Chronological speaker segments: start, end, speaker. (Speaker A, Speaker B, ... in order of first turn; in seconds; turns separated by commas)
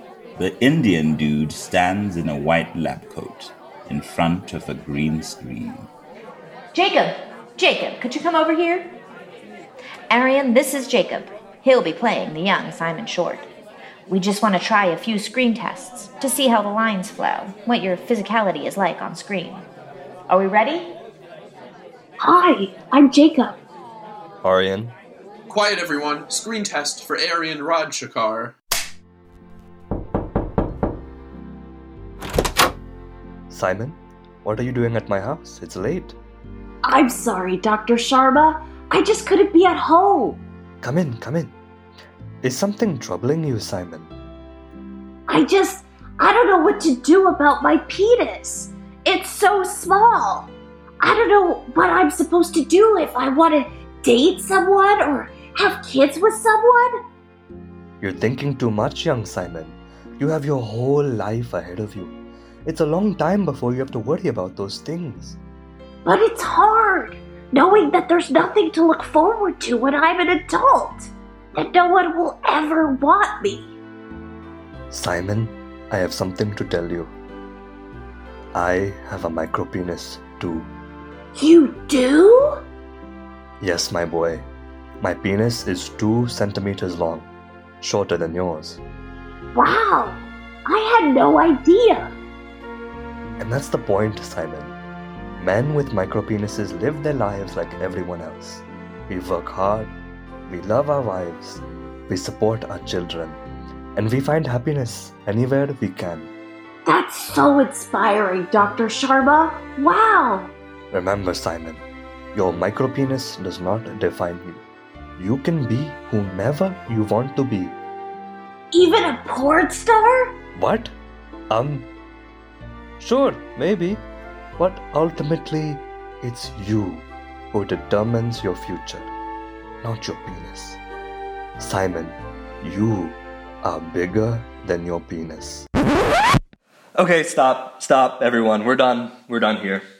Speaker A: 0.4-5.9, Speaker B: 6.7-8.9, Speaker B: 10.1-13.5, Speaker B: 14.1-19.6, Speaker B: 20.3-20.9, Speaker C: 22.2-23.6, Speaker D: 24.4-24.9, Speaker E: 25.5-28.5, Speaker D: 33.5-36.2, Speaker C: 36.8-40.4, Speaker D: 40.8-41.5, Speaker D: 42.4-44.1, Speaker C: 45.3-50.5, Speaker C: 51.0-56.9, Speaker D: 58.0-62.1, Speaker D: 62.6-65.4, Speaker C: 66.0-73.7, Speaker D: 74.9-77.1, Speaker D: 78.5-80.7, Speaker C: 81.3-82.6, Speaker D: 83.6-84.5, Speaker D: 85.0-87.3, Speaker D: 87.8-88.8, Speaker C: 89.5-92.1, Speaker D: 93.4-94.7, Speaker D: 95.4-99.9, Speaker D: 100.5-103.4, Speaker D: 104.0-106.3, Speaker C: 106.8-110.5, Speaker D: 110.9-114.6, Speaker D: 115.2-117.8, Speaker C: 118.7-120.3, Speaker D: 120.5-120.9, Speaker D: 121.5-121.9, Speaker D: 123.0-124.0, Speaker D: 124.6-129.1, Speaker D: 129.8-130.8, Speaker D: 131.6-135.7, Speaker D: 136.9-139.8